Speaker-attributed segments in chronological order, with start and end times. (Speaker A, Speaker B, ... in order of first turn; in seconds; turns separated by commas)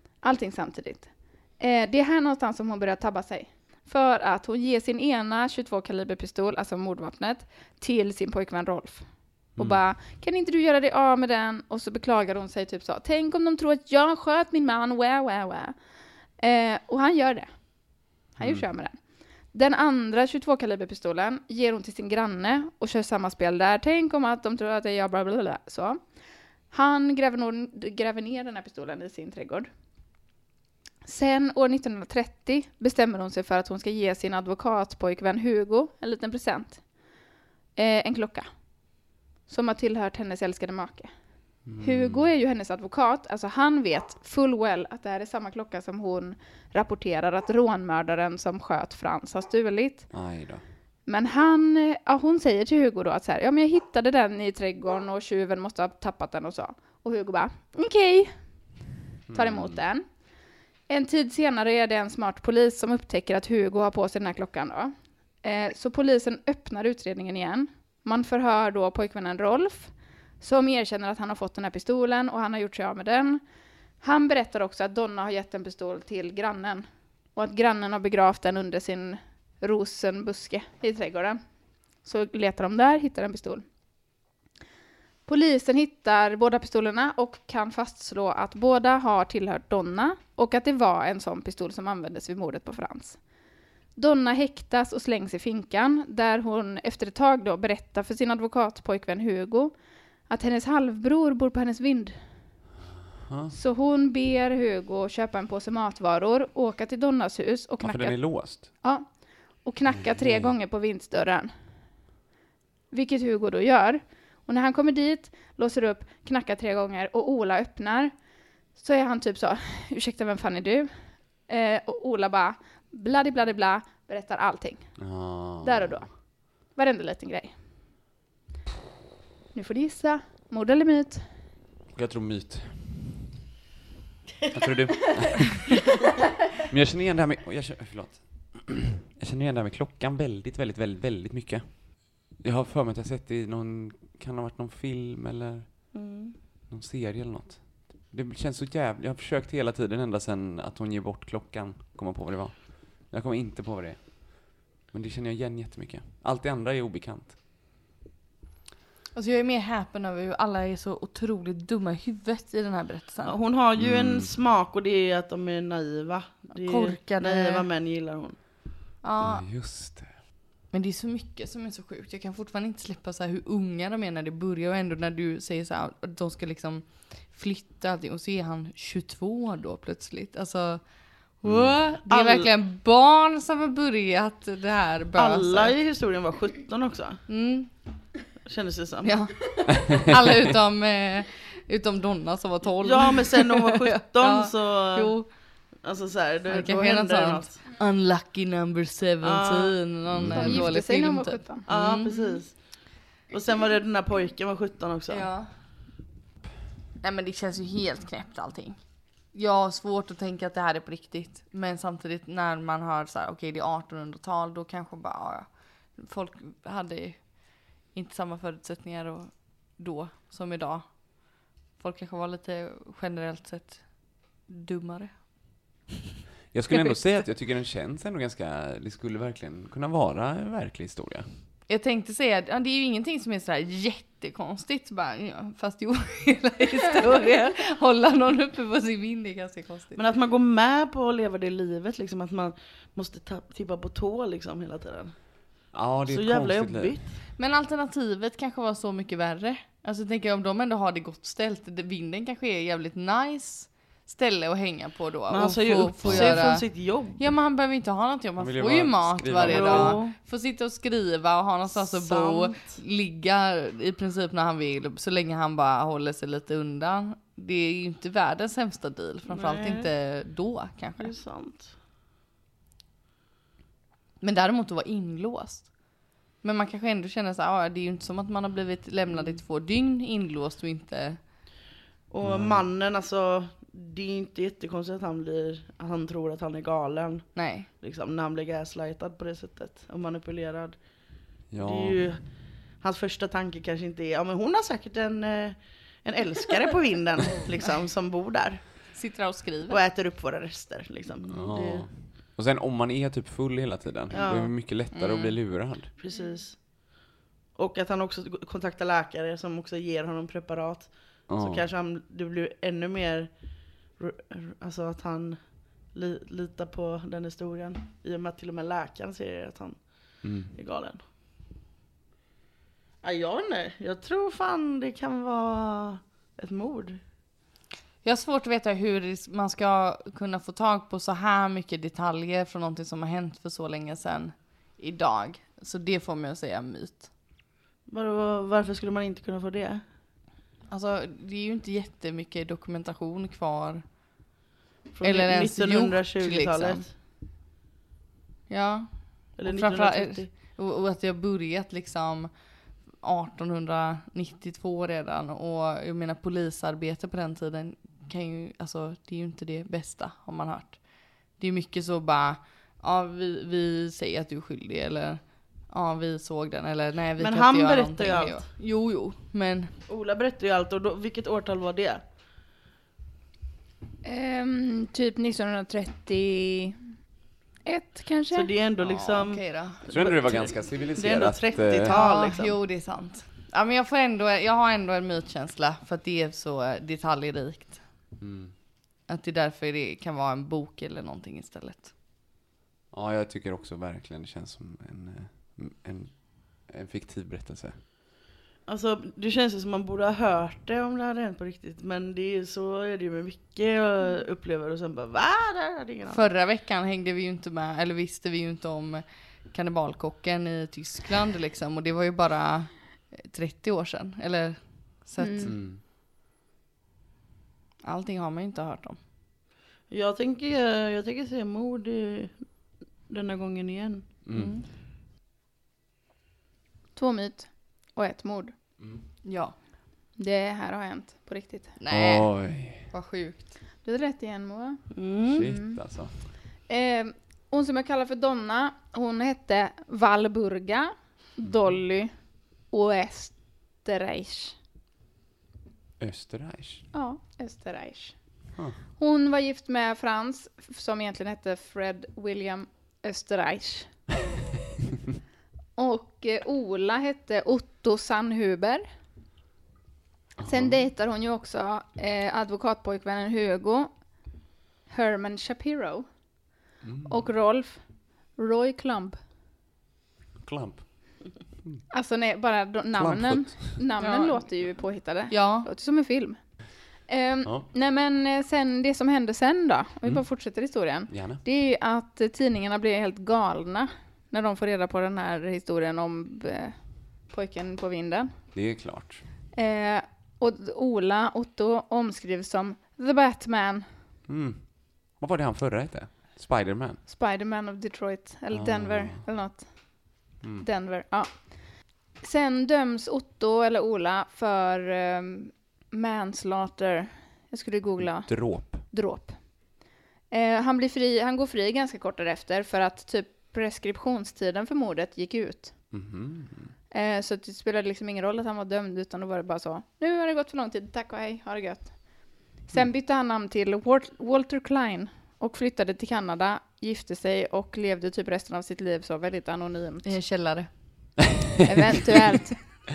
Speaker A: 0.2-15.8, Speaker A: 16.4-26.0, Speaker B: 18.4-18.7, Speaker A: 26.7-29.7, Speaker A: 31.1-36.8, Speaker A: 37.8-38.5, Speaker A: 39.5-41.1, Speaker B: 41.6-42.3, Speaker A: 41.7-50.1, Speaker B: 50.1-50.6, Speaker A: 51.1-58.4, Speaker B: 59.3-59.8, Speaker A: 59.3-60.1, Speaker A: 60.9-73.4, Speaker A: 74.0-81.4, Speaker A: 82.0-83.7, Speaker A: 85.3-93.2, Speaker A: 94.0-99.8, Speaker A: 100.3-102.2, Speaker B: 103.3-103.5, Speaker A: 103.5-111.5, Speaker B: 107.8-108.7, Speaker B: 109.9-110.5, Speaker A: 112.9-118.2, Speaker A: 118.8-127.5, Speaker B: 125.0-126.0, Speaker A: 129.5-131.3, Speaker B: 131.9-133.3, Speaker C: 134.5-134.7, Speaker B: 134.5-135.6, Speaker B: 136.7-146.1, Speaker C: 145.9-146.4, Speaker B: 146.7-157.4, Speaker D: 159.1-163.4, Speaker C: 163.2-168.4, Speaker B: 163.8-164.4, Speaker D: 166.5-167.7, Speaker D: 169.0-169.5, Speaker B: 169.2-170.2, Speaker D: 170.7-185.8, Speaker B: 181.4-181.8, Speaker C: 182.1-182.5, Speaker C: 185.2-187.2, Speaker D: 187.3-187.8, Speaker C: 188.4-189.2, Speaker D: 189.0-195.6, Speaker C: 192.8-197.7, Speaker D: 196.5-202.5, Speaker C: 199.2-200.3, Speaker B: 200.1-200.7, Speaker A: 200.3-201.7, Speaker C: 201.7-205.3, Speaker D: 205.1-205.6, Speaker D: 207.0-225.6, Speaker B: 226.5-231.4, Speaker D: 231.7-240.0, Speaker C: 239.9-245.4, Speaker B: 245.7-247.0, Speaker C: 246.1-247.2, Speaker D: 247.3-271.2, Speaker C: 255.3-257.2, Speaker B: 256.0-256.5, Speaker B: 258.4-260.0, Speaker C: 259.4-260.2, Speaker C: 261.7-262.8, Speaker C: 269.3-269.9, Speaker C: 271.0-271.8, Speaker D: 274.2-281.4, Speaker C: 279.1-279.4, Speaker C: 282.1-298.9, Speaker B: 282.2-282.7, Speaker D: 287.3-287.7, Speaker B: 291.5-292.0, Speaker D: 298.9-299.8, Speaker C: 299.7-302.2, Speaker B: 301.3-305.9, Speaker C: 304.1-304.8, Speaker D: 304.9-305.7, Speaker C: 306.0-307.0, Speaker C: 307.6-321.1, Speaker B: 311.3-311.7, Speaker B: 320.2-320.6, Speaker C: 323.0-327.0, Speaker D: 328.0-337.1, Speaker C: 337.9-339.9, Speaker D: 340.7-344.3, Speaker C: 344.9-346.9, Speaker D: 345.0-346.9, Speaker D: 348.5-369.8, Speaker C: 349.4-350.4, Speaker C: 367.2-368.5, Speaker C: 369.9-372.0, Speaker A: 374.0-376.8, Speaker A: 377.6-378.5, Speaker C: 378.3-382.6, Speaker B: 378.8-382.0, Speaker D: 379.2-379.9, Speaker D: 381.9-388.1, Speaker B: 388.2-388.6, Speaker D: 389.1-391.9, Speaker B: 392.9-397.8, Speaker C: 398.7-406.3, Speaker D: 406.1-415.6, Speaker A: 415.2-415.5, Speaker B: 415.4-415.8, Speaker D: 417.8-419.0, Speaker C: 419.9-422.5, Speaker C: 423.1-424.2, Speaker B: 424.3-424.6, Speaker D: 424.3-424.7, Speaker A: 426.9-428.5, Speaker B: 428.8-429.1, Speaker D: 429.2-429.6, Speaker A: 430.2-431.7, Speaker D: 431.8-433.6, Speaker B: 431.9-432.9, Speaker A: 433.8-435.8, Speaker C: 434.9-435.4, Speaker B: 435.3-436.3, Speaker A: 436.7-444.6, Speaker B: 446.0-446.9, Speaker A: 446.9-448.2, Speaker A: 449.0-454.0, Speaker A: 455.8-458.9, Speaker B: 460.4-460.9, Speaker A: 460.4-464.1, Speaker A: 464.9-466.1, Speaker B: 466.8-467.3, Speaker A: 467.1-469.2, Speaker B: 470.4-471.9, Speaker A: 471.9-488.3, Speaker B: 472.9-473.9, Speaker D: 474.0-474.4, Speaker D: 475.3-475.7, Speaker B: 481.1-481.4, Speaker B: 488.5-489.3, Speaker A: 489.6-493.9, Speaker B: 494.3-497.0, Speaker A: 497.1-515.9, Speaker B: 498.5-499.3, Speaker B: 508.0-508.9, Speaker B: 515.9-516.7, Speaker A: 516.9-530.1, Speaker D: 530.0-531.1, Speaker A: 531.6-532.6